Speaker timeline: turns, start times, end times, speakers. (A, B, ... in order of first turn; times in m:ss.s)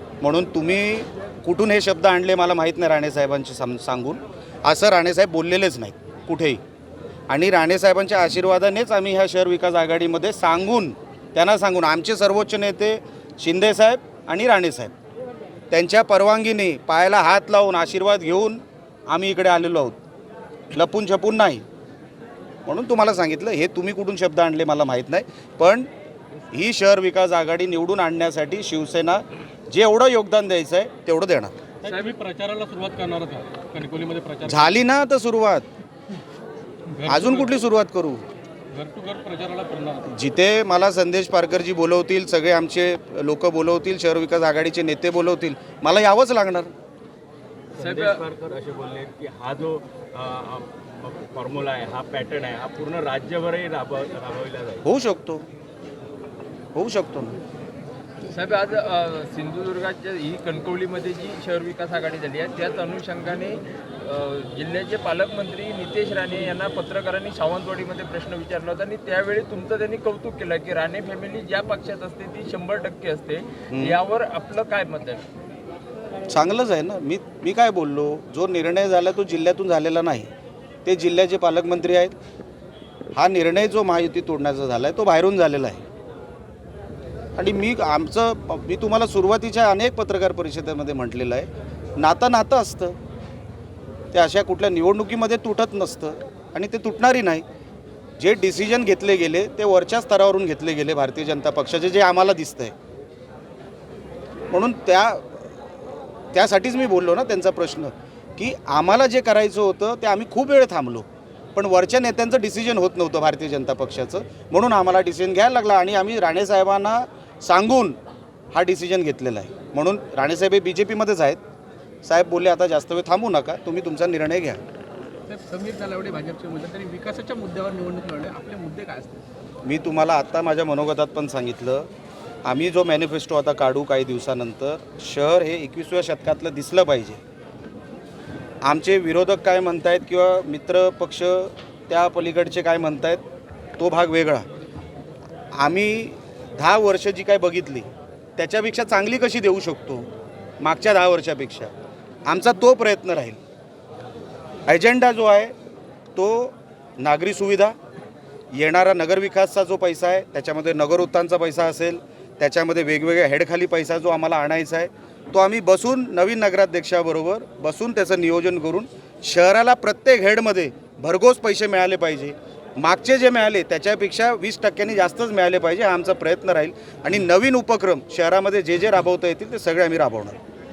0:00.2-0:06.6 A
0:07.3-0:14.9 A
0:15.7-0:20.0 A
0:20.7-0:21.6 A
0:22.6-0:25.9 A
0:26.5-0:31.5 A
0:31.8-0:34.8 B
0:34.4-0:35.7 A
0:37.0-0:37.5 B
0:37.1-0:38.2 A
0:38.7-0:40.0 B
0:40.1-0:46.7 A
0:47.7-0:54.8 C
0:47.8-0:48.2 D
0:54.8-0:55.4 A
0:56.7-0:57.4 A
0:58.3-1:15.2 D
1:13.7-1:14.0 A
1:16.3-1:20.3 A
1:20.8-1:22.1 A
1:23.1-1:25.8 A
1:27.4-1:33.0 A
1:34.1-1:37.4 A
1:38.2-1:42.7 A
1:44.5-1:45.5 A
1:46.3-1:58.0 A
1:58.5-2:01.4 A
2:02.0-2:04.6 A
2:05.3-2:09.1 E
2:09.6-2:11.9 A
2:12.4-2:17.2 A
2:18.6-2:23.2 A
2:23.8-2:24.5 A
2:25.5-2:30.1 A
2:30.6-2:31.7 A
2:32.2-2:33.4 A
2:34.7-2:35.5 A
2:36.1-2:37.8 A
2:38.5-3:00.4 A